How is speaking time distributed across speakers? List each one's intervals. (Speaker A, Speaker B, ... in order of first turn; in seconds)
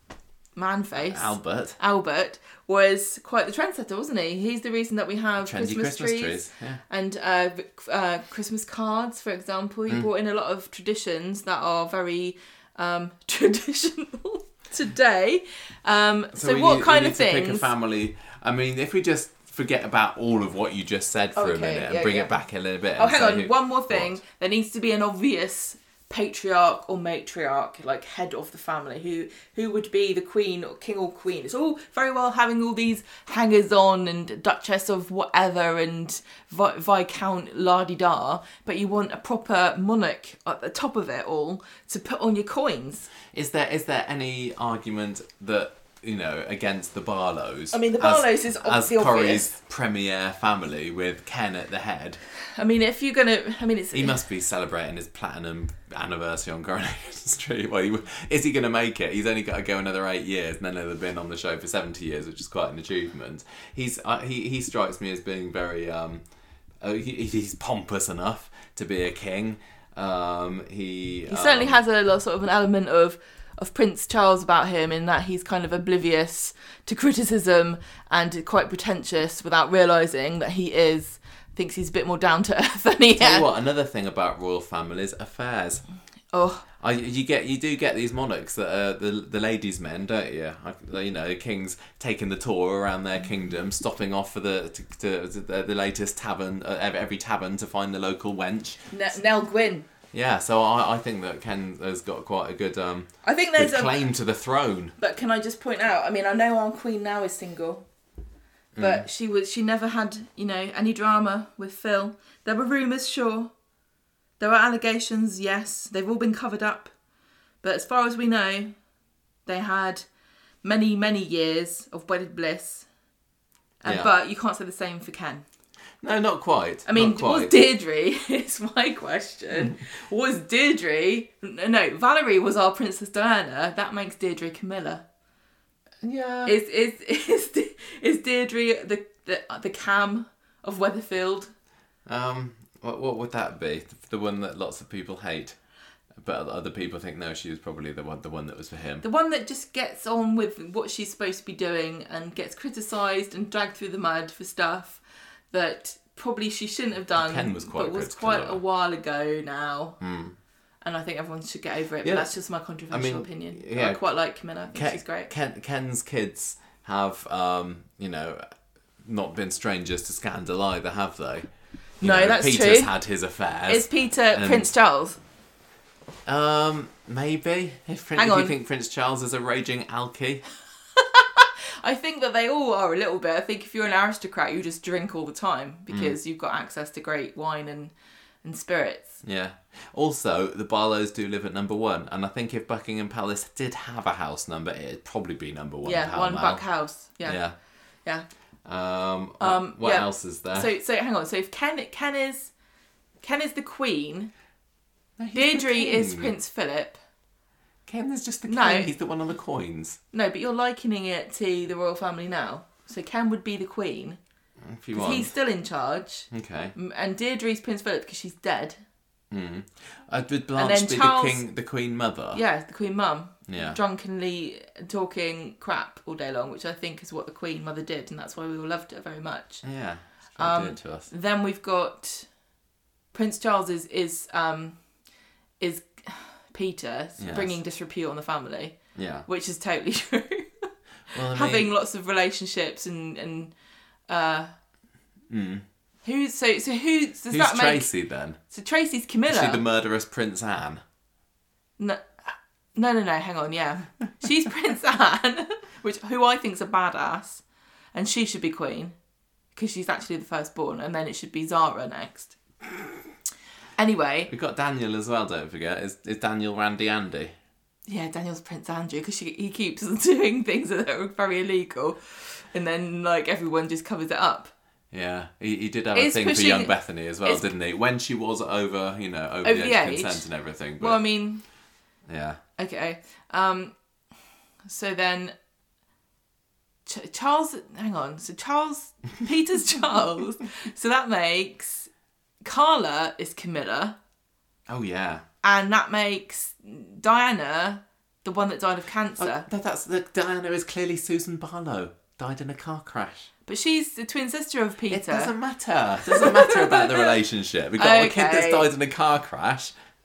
Speaker A: 0.6-17.7, 21.4-22.3, 23.0-43.1, 47.7-49.5, 52.5-54.2, 71.3-83.5, 86.3-86.6, 98.9-99.8, 103.2-104.0, 105.0-107.8, 108.8-113.5, 114.4-116.9, 117.6-118.7, 119.5-120.0, 120.6-122.9, 123.8-125.4, 126.9-135.0, 136.4-141.5, 149.0-155.0, 155.5-160.0, 160.8-165.3, 172.0-172.9, 173.7-175.2, 178.2-178.5, 180.9-187.9, 188.4-189.2, 195.8-197.4, 199.4-202.5, 203.2-204.3, 205.3-207.0, 208.5-208.9, 210.1-214.2, 214.9-218.8, 220.6-221.4, 222.3-229.6, 230.4-232.3, 233.1-234.8, 235.6-238.8, 239.3-243.5, 244.1-244.5, 246.0-247.9, 248.5-249.6, 251.8-258.9, 259.6-262.4, 263.8-264.3, 267.9-274.5, 275.9-277.4, 279.4-280.2, 280.8-281.4, 282.6-283.7, 284.6-285.3, 286.9-291.9, 292.4-294.0, 295.4-299.5, 303.4-305.3, 306.0-307.2, 307.8-308.7
Speaker B: 1.0-1.8, 5.4-6.8, 16.3-24.2, 43.3-52.2, 53.9-66.2, 66.8-71.8, 83.2-85.8, 86.8-98.8, 100.1-104.9, 108.8-109.0, 123.8-124.1, 126.0-127.5, 136.0-136.5, 142.1-145.6, 146.2-149.0, 157.1-158.6, 160.0-160.4, 162.0-162.3, 162.9-164.0, 164.7-168.4, 169.0-171.5, 172.0-174.7, 176.2-180.4, 185.9-186.2, 189.2-196.6, 197.2-197.5, 198.7-200.7, 205.2-206.3, 207.9-210.0, 214.6-215.3, 216.3-216.7, 219.3-222.4, 223.5-223.8, 229.6-231.1, 237.2-237.6, 238.9-239.2, 241.1-241.7, 245.3-245.6, 247.3-248.4, 249.3-250.8, 264.3-267.3, 274.9-281.0, 282.1-282.4, 294.7-295.2, 299.2-303.3, 304.9-309.7